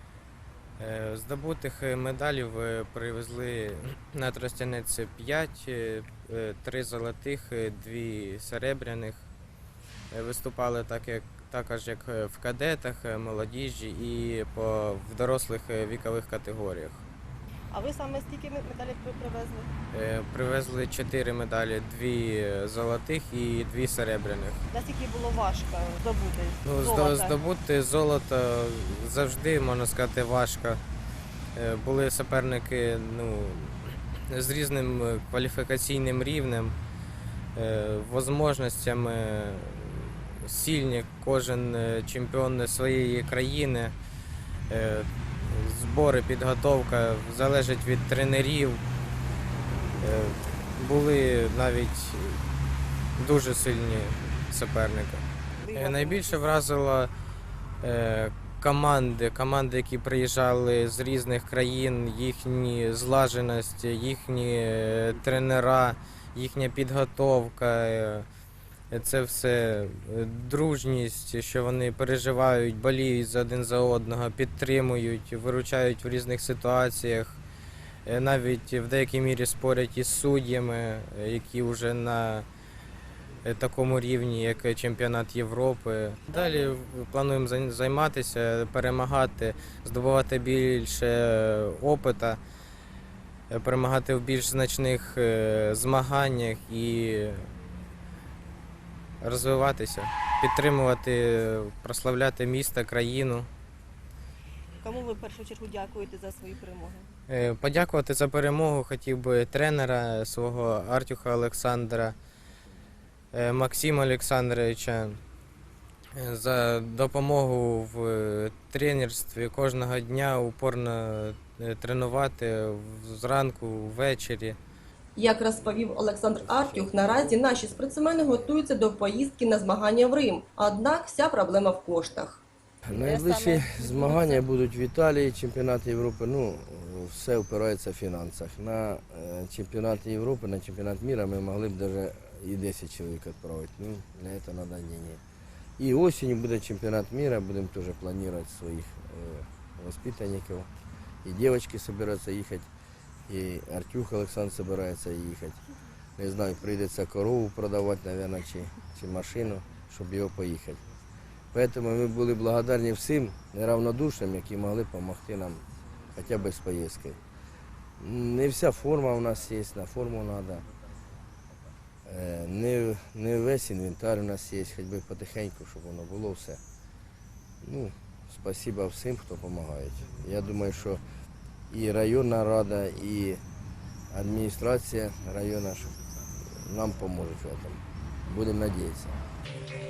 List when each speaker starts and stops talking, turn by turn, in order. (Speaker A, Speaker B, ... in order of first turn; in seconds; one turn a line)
Speaker A: 0.8-9.2
Speaker A: 10.1-17.0
Speaker B: 17.7-19.7
Speaker A: 19.9-24.6
Speaker B: 24.7-27.4
Speaker A: 26.6-30.8
Speaker A: 31.5-36.8
Speaker A: 37.5-44.0
Speaker A: 44.7-48.8
Speaker A: 50.0-52.4
Speaker A: 53.2-57.1
Speaker B: 55.6-56.4
Speaker A: 57.8-68.2
Speaker A: 68.9-77.4
Speaker A: 78.0-82.5
Speaker A: 83.4-92.4
Speaker A: 93.5-97.5
Speaker A: 99.2-103.5
Speaker B: 104.8-107.1
Speaker A: 107.3-112.2
Speaker A: 113.3-115.2
Speaker A: 116.2-124.6
Speaker C: 125.2-132.4
Speaker D: 132.9-145.2
Speaker B: 132.9-134.4
Speaker D: 145.8-150.7
Speaker D: 151.2-152.7
Speaker D: 153.3-155.6
Speaker D: 156.2-160.8
Speaker D: 161.5-167.2
Speaker D: 168.0-170.6
Speaker D: 172.1-176.6
Speaker D: 177.6-181.0
Speaker D: 181.7-183.4
Speaker D: 184.1-185.9
Speaker D: 186.5-189.1